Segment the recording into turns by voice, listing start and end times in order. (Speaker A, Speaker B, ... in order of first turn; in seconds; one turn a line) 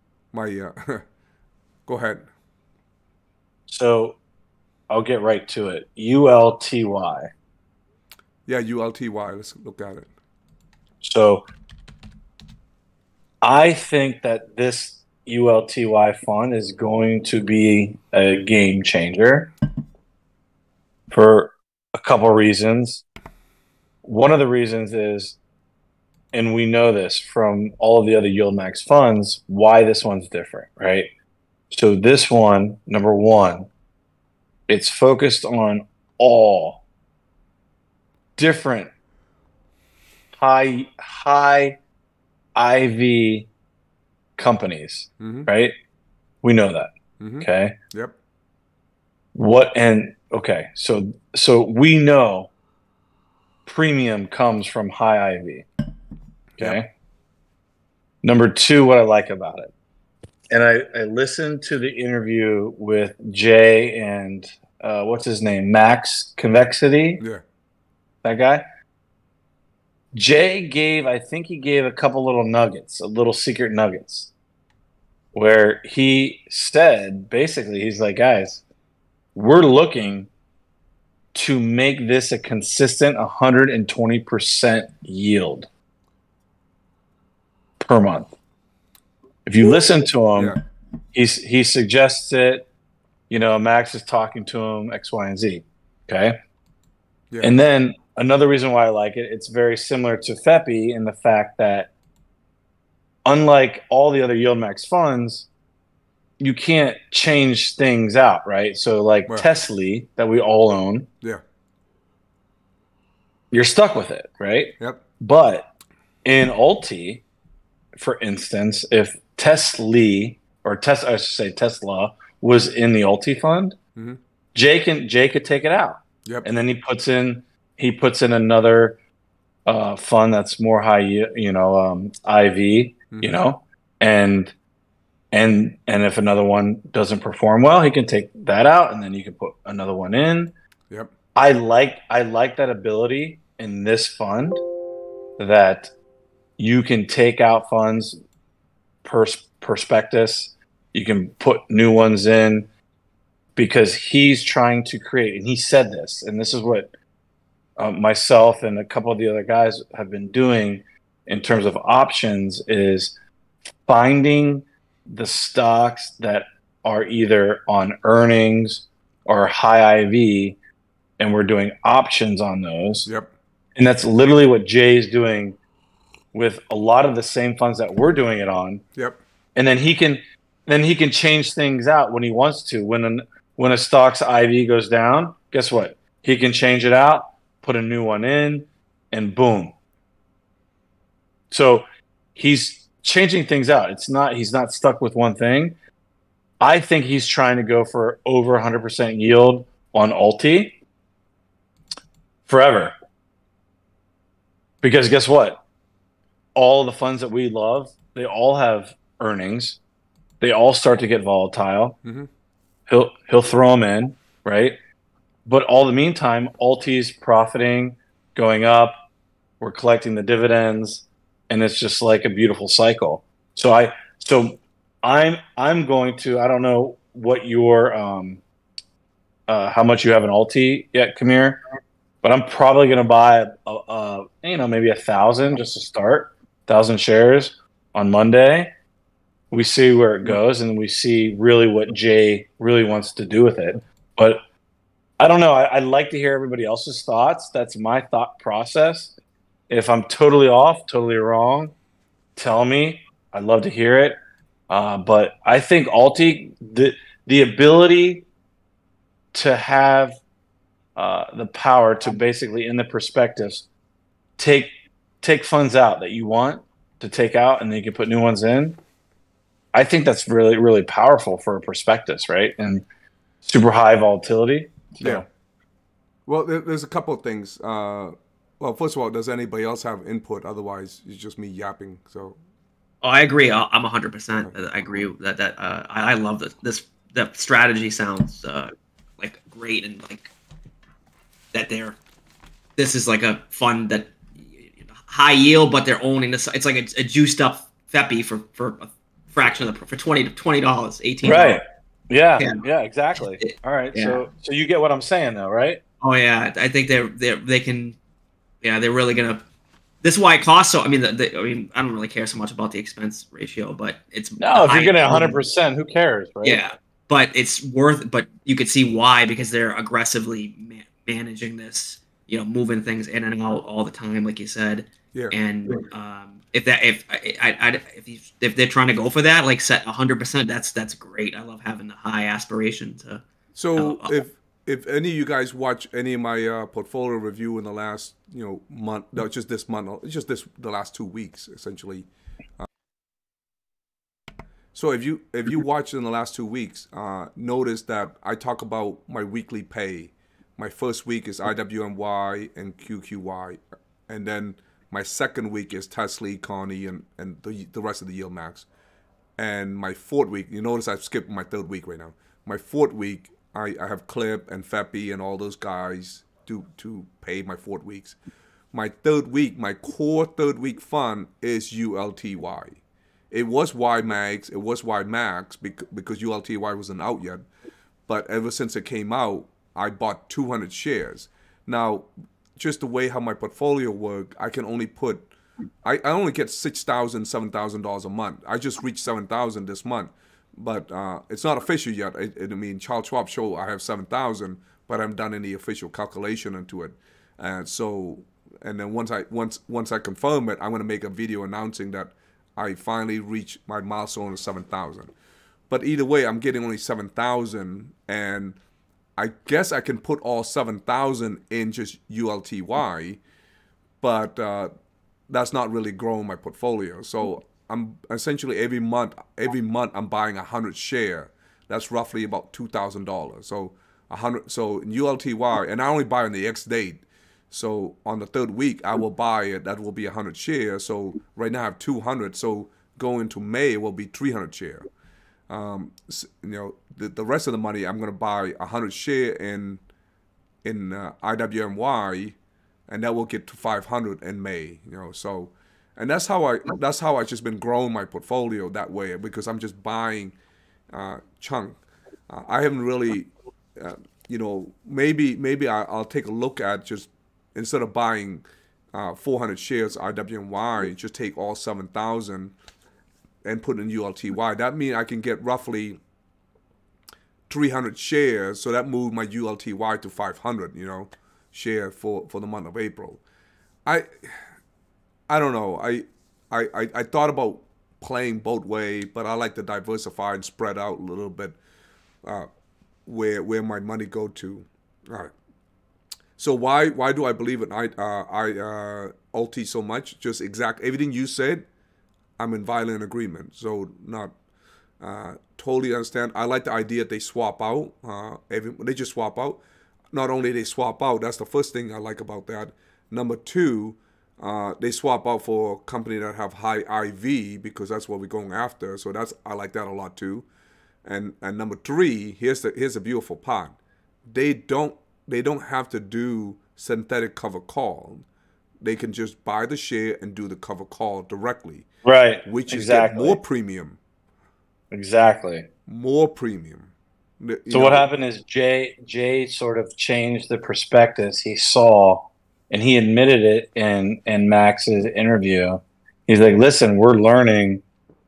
Speaker A: 0.3-1.0
Speaker A: 1.9-2.2
Speaker B: 3.7-4.2
Speaker B: 4.9-7.3
Speaker A: 8.5-10.1
Speaker B: 11.0-11.5
Speaker B: 13.4-19.5
Speaker B: 21.1-23.0
Speaker B: 24.0-25.4
Speaker B: 26.3-31.1
Speaker B: 31.7-33.7
Speaker B: 34.7-36.8
Speaker B: 38.4-38.9
Speaker B: 40.3-41.8
Speaker B: 42.5-43.5
Speaker B: 44.4-45.7
Speaker A: 45.2-45.5
Speaker B: 46.4-47.8
Speaker A: 47.2-48.1
Speaker B: 49.3-52.5
Speaker B: 53.6-55.7
Speaker B: 56.6-56.9
Speaker B: 58.2-59.7
Speaker B: 60.5-67.2
Speaker B: 68.2-68.6
Speaker B: 70.1-74.3
Speaker B: 75.3-78.6
Speaker B: 79.3-80.3
Speaker B: 81.3-85.7
Speaker B: 87.8-88.3
Speaker B: 89.5-90.5
Speaker A: 90.3-90.6
Speaker B: 91.1-92.7
Speaker B: 93.3-96.4
Speaker A: 97.3-97.6
Speaker B: 97.4-101.9
Speaker B: 103.2-105.5
Speaker B: 106.4-111.1
Speaker B: 113.5-115.7
Speaker B: 116.2-117.2
Speaker B: 117.9-123.8
Speaker B: 124.5-129.0
Speaker B: 129.7-134.5
Speaker A: 133.1-133.4
Speaker B: 135.3-140.5
Speaker B: 141.3-144.6
Speaker B: 145.4-145.9
Speaker B: 146.6-148.2
Speaker B: 149.0-152.7
Speaker B: 153.6-156.9
Speaker B: 157.8-163.1
Speaker B: 163.8-170.6
Speaker B: 171.2-173.1
Speaker B: 173.8-175.6
Speaker B: 176.3-178.8
Speaker B: 179.5-189.7
Speaker B: 191.5-195.8
Speaker B: 196.6-200.8
Speaker B: 202.5-202.9
Speaker B: 204.8-205.6
Speaker B: 206.5-209.8
Speaker B: 210.4-212.0
Speaker B: 212.9-214.8
Speaker B: 215.4-219.0
Speaker B: 219.6-228.4
Speaker B: 229.5-231.6
Speaker B: 232.2-238.7
Speaker B: 239.5-244.4
Speaker B: 245.2-249.1
Speaker B: 249.7-251.7
Speaker B: 252.3-254.2
Speaker B: 254.7-258.2
Speaker B: 259.3-260.2
Speaker B: 260.9-263.7
Speaker B: 264.4-268.8
Speaker B: 269.7-272.9
Speaker B: 273.4-275.2
Speaker A: 276.3-282.4
Speaker C: 283.0-290.3
Speaker C: 291.5-292.0
Speaker C: 292.8-301.6
Speaker B: 301.2-305.8
Speaker C: 303.3-304.2
Speaker C: 306.0-308.0
Speaker C: 308.6-309.4
Speaker C: 310.0-315.4
Speaker B: 314.4-316.6
Speaker C: 316.4-333.2
Speaker A: 333.5-342.1
Speaker C: 333.8-334.2
Speaker A: 344.7-358.7
Speaker A: 359.4-368.1
Speaker A: 368.7-372.8
Speaker A: 373.3-377.4
Speaker A: 378.1-385.3
Speaker A: 385.8-405.1
Speaker A: 405.7-408.6
Speaker A: 409.2-413.2
Speaker A: 414.0-414.7
Speaker A: 415.3-434.9
Speaker A: 435.5-439.8
Speaker A: 440.6-442.4
Speaker A: 442.9-450.4
Speaker A: 450.9-451.8
Speaker A: 452.3-462.5
Speaker A: 463.4-466.0
Speaker A: 467.5-473.2
Speaker A: 475.3-481.6
Speaker A: 482.2-482.5
Speaker A: 483.1-485.3
Speaker A: 486.4-491.6
Speaker A: 492.4-494.3
Speaker A: 495.0-499.6
Speaker A: 500.1-510.4
Speaker A: 511.0-513.8
Speaker A: 514.3-518.2
Speaker A: 518.8-521.9
Speaker B: 522.0-523.4
Speaker A: 522.4-524.0
Speaker B: 524.9-525.7
Speaker A: 525.9-528.1
Speaker B: 527.7-537.8